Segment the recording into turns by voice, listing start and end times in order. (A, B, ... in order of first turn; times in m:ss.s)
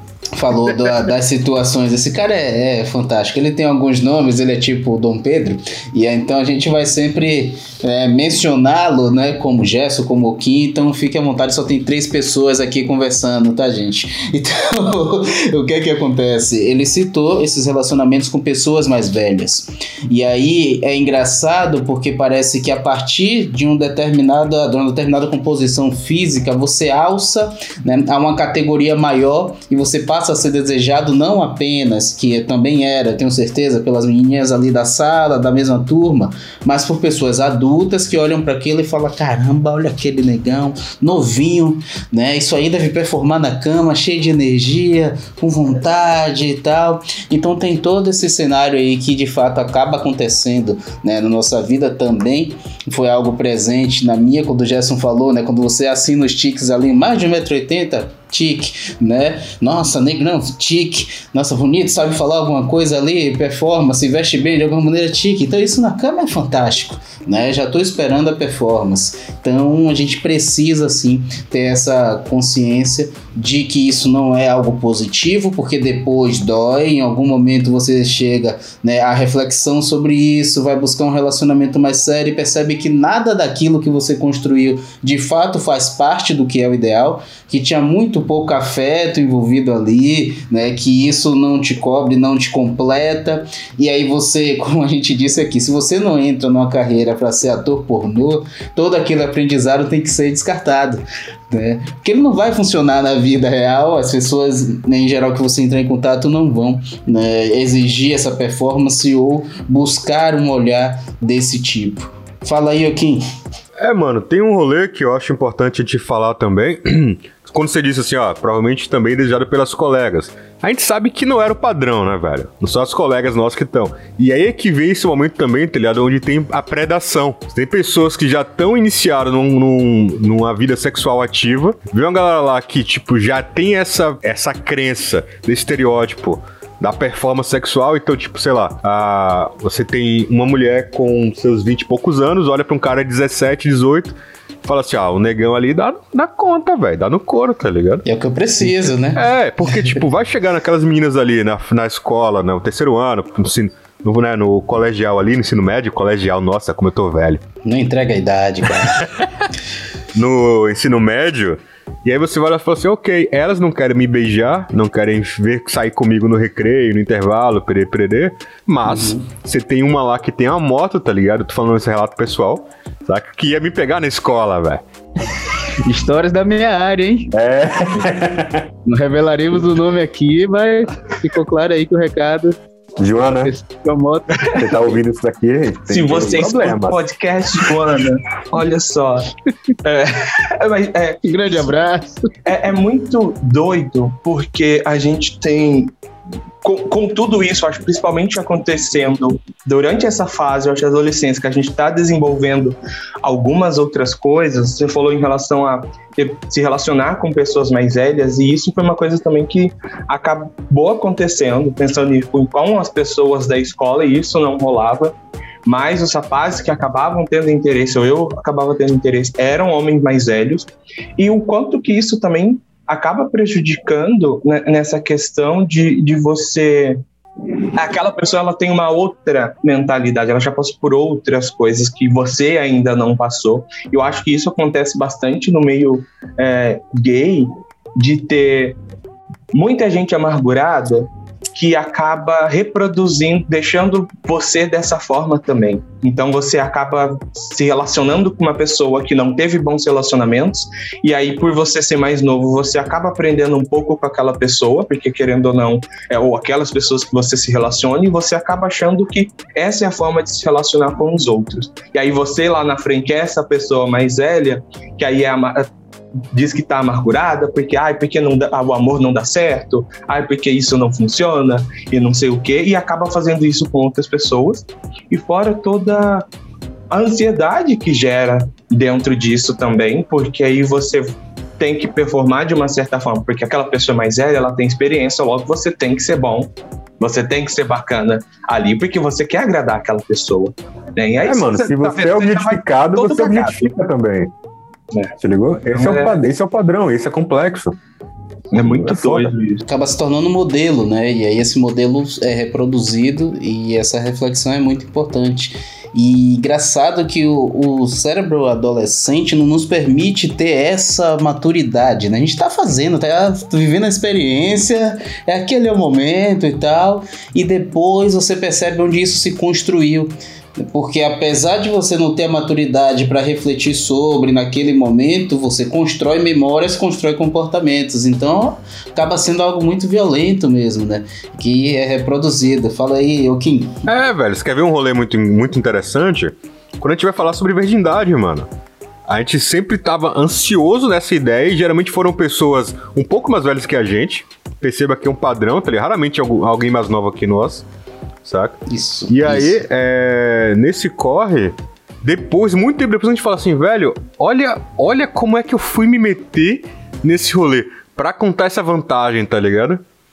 0:00.3-1:53.2 A
1:53.8-2:28.0 B
2:28.0-2:30.0 A
2:28.7-2:37.4 B
2:37.6-2:39.1 A
2:38.8-2:39.5 B
2:40.1-2:54.8 B
2:48.8-2:49.2 A
2:55.8-2:57.3 A
2:57.3-2:58.6 B
2:58.8-3:02.5 A
3:03.0-3:03.5 B
3:03.4-3:04.4 A
3:04.4-3:04.7 C
3:04.5-3:07.0 B
3:05.9-3:09.3 C
3:09.8-3:11.7 C
3:11.2-3:12.3 A
3:12.4-3:15.9 C
3:16.6-3:35.1 C
3:35.6-3:47.0 C
3:47.7-3:58.8 C
3:59.5-4:25.7 C
4:26.3-4:36.2 C
4:36.9-4:53.7 C
4:51.2-4:54.3 B
4:55.2-4:57.8 B
4:55.7-4:56.2 C
4:58.5-4:59.6 C
4:58.6-4:59.3 B
4:59.6-5:33.8 A
5:33.8-5:38.5 B
5:39.1-5:47.6 B
5:48.2-5:59.8 B
5:48.7-5:49.6 A